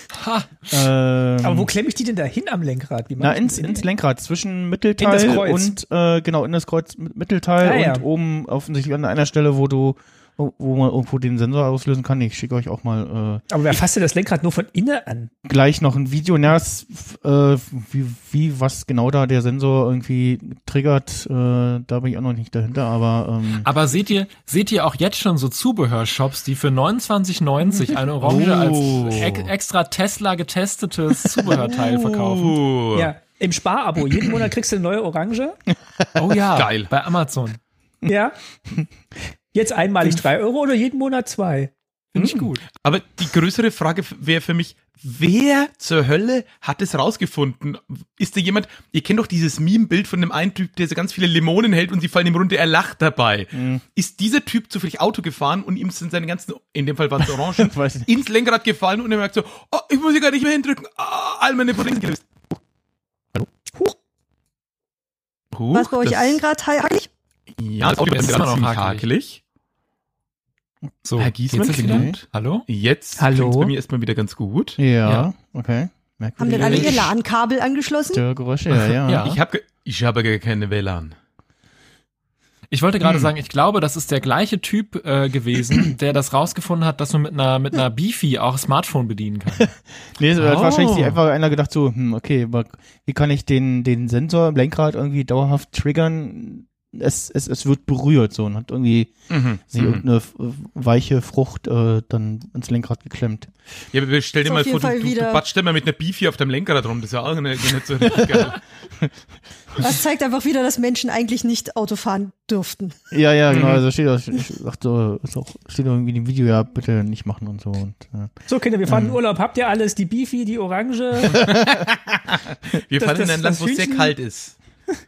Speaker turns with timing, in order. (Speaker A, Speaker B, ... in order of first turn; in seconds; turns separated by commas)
Speaker A: 0.1-0.7, Speaker B: 0.7-1.7, Speaker C: 1.4-3.8, Speaker B: 3.2-13.4, Speaker C: 5.0-5.7, Speaker C: 7.6-8.1, Speaker C: 13.5-15.3, Speaker B: 15.4-23.7, Speaker A: 23.6-32.6, Speaker B: 28.2-29.4, Speaker D: 28.9-29.3, Speaker D: 31.5-33.1, Speaker C: 32.9-35.6, Speaker A: 36.2-37.6, Speaker D: 36.5-36.9, Speaker C: 38.1-38.4, Speaker C: 39.5-41.7, Speaker B: 42.2-42.5, Speaker D: 42.2-62.4, Speaker B: 53.5-53.8, Speaker B: 57.5-58.2, Speaker D: 65.5-66.4, Speaker E: 65.7-67.1, Speaker D: 67.6-69.4, Speaker A: 67.9-69.0, Speaker A: 71.0-72.7, Speaker D: 71.2-74.8, Speaker B: 71.8-72.2, Speaker C: 73.2-73.7, Speaker B: 74.8-77.1, Speaker A: 75.0-75.3, Speaker E: 76.4-78.2, Speaker A: 76.7-76.9, Speaker B: 78.1-79.3, Speaker A: 79.0-79.4, Speaker D: 79.2-81.2, Speaker A: 82.7-89.7, Speaker D: 83.0-83.3, Speaker B: 90.2-99.1, Speaker D: 90.4-91.2, Speaker D: 99.3-100.0, Speaker B: 99.7-103.5, Speaker D: 103.9-108.6, Speaker E: 104.5-105.4, Speaker B: 108.2-108.5, Speaker E: 109.8-113.0, Speaker B: 113.1-118.3, Speaker D: 113.5-113.8, Speaker C: 118.5-121.5, Speaker B: 118.9-119.2, Speaker D: 121.3-124.6, Speaker C: 123.0-124.1